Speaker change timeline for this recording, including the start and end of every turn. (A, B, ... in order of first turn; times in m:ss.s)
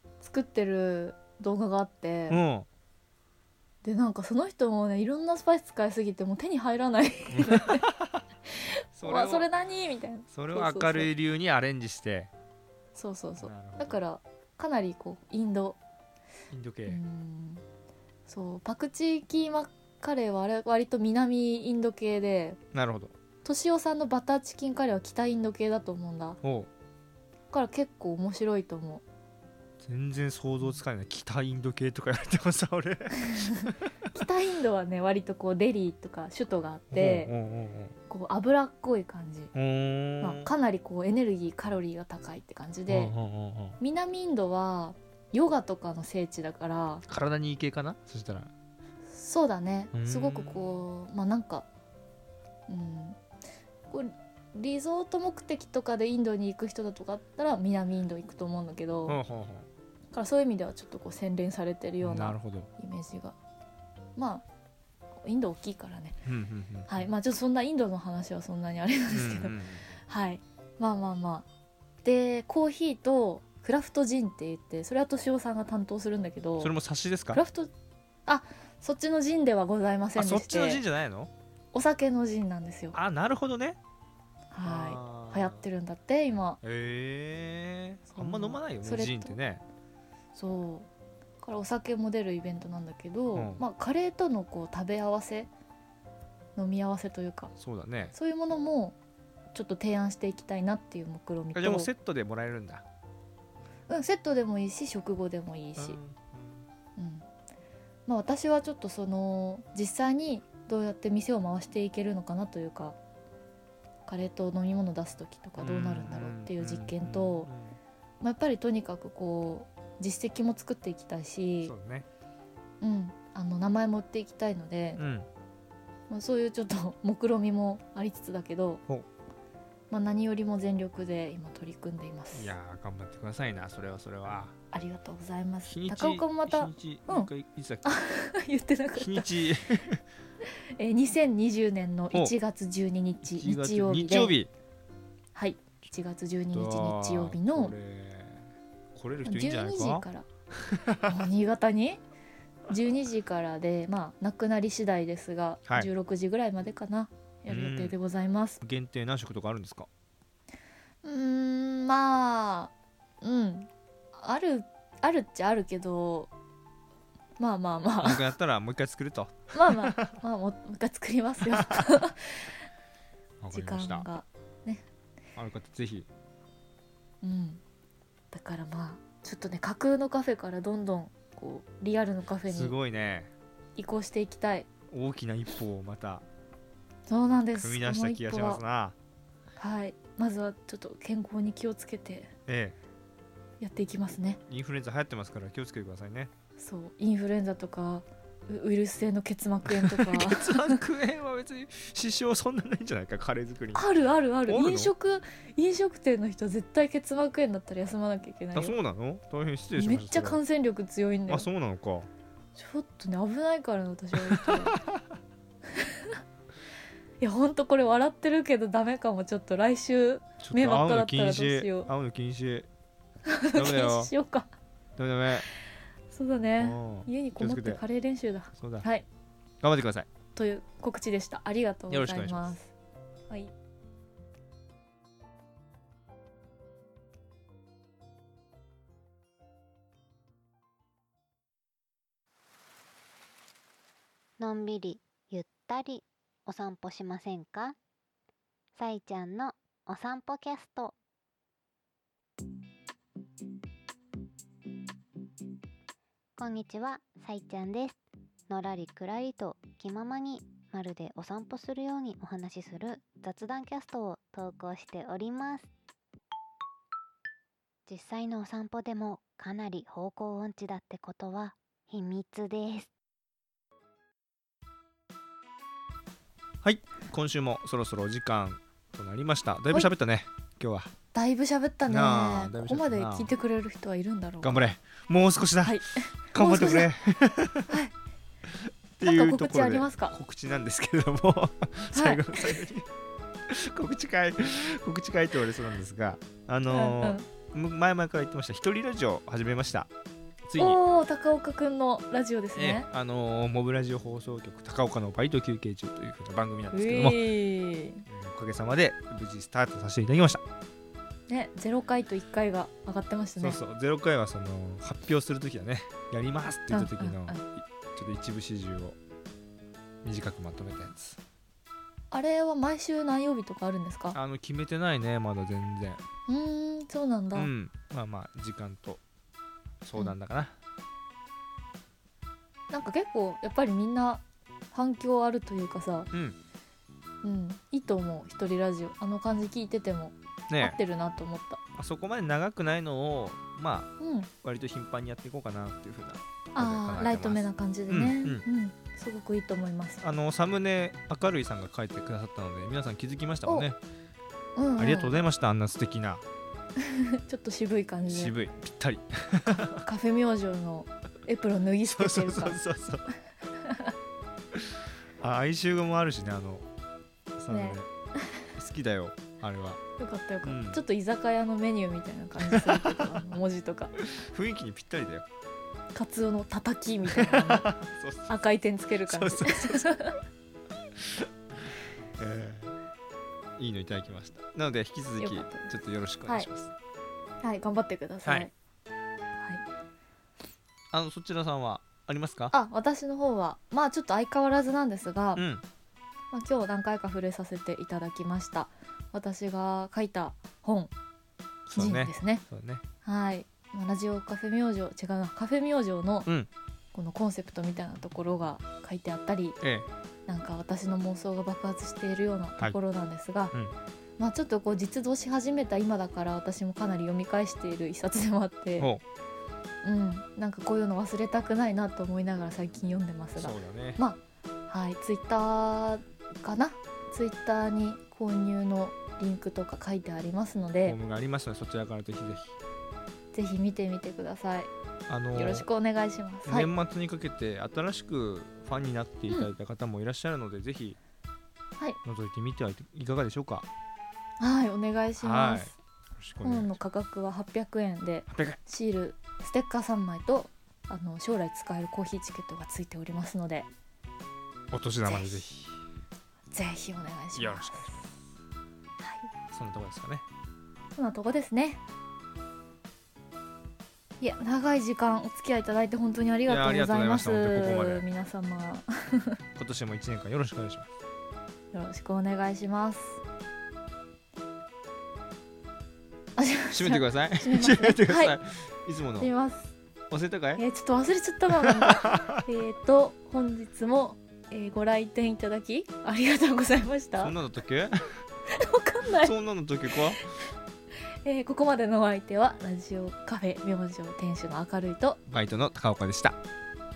0:00.2-0:02.4 A
0:02.3-0:02.6 B
0:03.8-0:07.8 A
0:07.3-0:08.2 B
0:08.5-0:11.1 A
0:09.0-0:09.5 B
0:10.3-0:12.3 B
0:12.9-0:15.8 A
0:13.4-0:14.0 B
0:16.5-0:17.0 B
0:16.9-0:17.6 A
0:18.3-0:22.6 A
0:22.7-0:23.1 B
0:23.4-0:26.4 A
0:26.4-0:26.7 B
0:27.5-0:29.0 A
0:29.8-0:33.7 B
0:33.2-0:37.3 A
0:36.9-0:37.9 B
0:38.1-0:39.5 A
0:39.5-0:40.5 B
0:40.2-0:43.1 A
0:42.9-0:43.8 B
0:43.8-0:47.0 A
0:47.1-0:48.5 B
0:49.1-0:51.7 A
0:49.9-0:50.8 B
0:52.7-0:53.2 A
0:53.9-0:59.2 A
0:59.0-0:59.7 B
1:00.1-1:03.3 A
1:02.0-1:02.7 B
1:04.2-1:04.4 A
1:05.2-1:06.2 A
1:06.2-1:07.0 B
1:06.9-1:11.4 A
1:09.1-1:09.9 B
1:12.0-1:16.7 A
1:16.6-1:17.4 B
1:17.3-1:17.7 A
1:18.3-1:20.8 A
1:20.1-1:21.3 B
1:21.7-1:23.0 A
1:22.9-1:23.8 B
1:24.5-1:26.6 A
1:24.6-1:25.6 B
1:26.6-1:29.6 B
1:28.1-1:29.3 A
1:30.3-1:30.9 A
1:31.4-1:35.5 A
1:33.3-1:33.6 B
1:36.6-1:37.5 A
1:37.6-1:38.1 B
1:38.1-1:39.0 A
1:39.5-1:41.9 A
1:41.5-1:42.8 B
1:43.9-1:46.0 A
1:45.8-1:46.7 B
1:47.0-1:47.3 A
1:48.1-1:53.0 A
1:54.1-1:57.5 A
1:55.6-1:57.8 B
1:58.2-2:01.7 A
2:01.6-2:02.1 B
2:02.8-2:05.0 A
2:05.0-2:05.3 B
2:06.1-2:08.8 A
2:09.9-2:12.5 A
2:12.3-2:14.5 B
2:14.7-2:17.3 A
2:15.6-2:17.9 B
2:17.8-2:19.3 A
2:19.0-2:20.0 B
2:20.8-2:24.3 A
2:23.2-2:24.5 B
2:25.3-2:27.7 A
2:26.5-2:30.0 B
2:29.2-2:30.3 A
2:30.7-2:31.1 B
2:31.0-2:32.0 A
2:32.7-2:38.6 A
2:37.5-2:38.0 B
2:38.6-2:39.9 B
2:41.0-2:46.3 A
2:47.4-2:48.3 A
2:48.0-2:50.0 B
2:49.5-2:52.5 A
2:51.5-2:51.9 B
2:53.4-2:54.1 B
2:53.5-2:54.8 A
2:55.4-2:56.1 B
2:57.2-2:57.6 A
2:58.3-3:02.8 A
3:02.5-3:03.3 B
3:03.8-3:04.7 A
3:04.9-3:06.2 B
3:07.1-3:08.6 A
3:07.6-3:08.9 B
3:09.6-3:12.3 A
3:12.5-3:12.8 B
3:13.6-3:14.4 A
3:14.5-3:16.3 B
3:16.6-3:20.8 A
3:19.6-3:23.8 B
3:23.7-3:28.8 A
3:24.5-3:24.9 B
3:28.5-3:30.4 B
3:29.8-3:31.5 A
3:31.3-3:32.1 B
3:32.6-3:34.8 A
3:34.2-3:35.0 B
3:35.7-3:36.2 A
3:37.2-3:41.9 A
3:40.4-3:42.7 B
3:43.2-3:44.5 A
3:43.5-3:44.1 B
3:45.0-3:45.4 B
3:46.1-3:49.0 A
3:46.6-3:47.8 B
3:48.6-3:48.8 B
3:49.6-3:50.1 B
3:50.3-3:52.7 A
3:51.9-3:52.5 B
4:04.4-4:07.7 C
4:08.7-4:10.9 C
4:16.4-4:25.7 C
4:27.8-4:32.9 C
4:36.6-4:40.9 B
4:41.1-4:44.6 A
4:41.9-4:43.3 B
4:44.4-4:47.7 B
4:45.6-4:46.9 A
4:48.5-4:52.8 B
4:49.0-4:50.1 A
4:51.9-4:52.6 A
4:53.5-4:59.9 B
4:56.7-4:57.2 A
5:00.5-5:00.8 B
5:00.6-5:02.9 A
5:02.6-5:07.2 B
5:06.7-5:08.0 A
5:08.0-5:10.4 B
5:11.3-5:13.6 A
5:13.4-5:19.0 B
5:16.7-5:17.4 A
5:20.0-5:21.2 B
5:22.1-5:24.2 A
5:24.1-5:26.0 B
5:26.3-5:27.5 A
5:27.3-5:29.0 B
5:29.8-5:30.5 B
5:32.7-5:36.1 A
5:36.1-5:36.4 B
5:37.2-5:41.6 A
5:40.5-5:40.8 B
5:41.8-5:48.4 B
5:44.0-5:44.3 A
5:46.5-5:50.0 A
5:50.0-5:53.8 B
5:54.6-5:55.2 A
5:54.8-5:56.2 B
5:56.8-5:58.3 A
5:58.1-5:59.8 B
5:59.8-6:02.6 A
6:01.8-6:03.1 B
6:03.6-6:03.9 A
6:04.5-6:06.6 B
6:07.4-6:07.9 B
6:07.5-6:07.8 A
6:08.6-6:09.8 B
6:10.0-6:13.9 A
6:10.4-6:10.8 B
6:12.4-6:13.3 B
6:14.0-6:15.2 B
6:15.9-6:17.7 A
6:17.1-6:18.3 B
6:18.3-6:20.2 A
6:19.1-6:19.8 B
6:21.0-6:22.8 B
6:23.6-6:26.7 B
6:25.2-6:26.5 A
6:27.4-6:28.5 A
6:29.4-6:29.6 A
6:30.9-6:32.5 B
6:32.5-6:35.4 A
6:35.4-6:35.6 B
6:36.3-6:40.9 A
6:41.6-6:42.4 A
6:41.7-6:42.8 B
6:43.0-6:46.3 A
6:46.9-6:49.6 A
6:49.6-6:49.9 B
6:50.3-6:53.5 A
6:54.2-6:58.9 A
6:59.8-7:11.0 A
7:03.4-7:04.0 B
7:10.8-7:12.6 B
7:13.3-7:14.7 A
7:15.1-7:15.7 B
7:15.3-7:16.7 A
7:16.4-7:21.0 B
7:22.0-7:23.7 B
7:24.4-7:25.8 A
7:25.2-7:26.8 B
7:26.4-7:33.7 A
7:28.3-7:28.6 B
7:34.7-7:35.8 B
7:35.0-7:35.5 A
7:36.5-7:38.1 A
7:37.3-7:38.1 B
7:39.0-7:39.3 A
7:39.5-7:40.2 B
7:40.9-7:41.8 A
7:44.2-7:49.4 A
7:46.5-7:48.0 B
7:49.6-7:50.9 B
7:51.7-7:53.2 A
7:56.4-7:58.4 A
7:56.7-7:59.3 B
7:59.2-7:59.7 A
8:00.1-8:00.6 B
8:00.6-8:07.4 A
8:01.5-8:02.4 B
8:07.2-8:08.2 B
8:08.5-8:09.3 A
8:09.2-8:10.3 B
8:09.9-8:10.2 A
8:11.2-8:15.2 A
8:15.3-8:16.4 B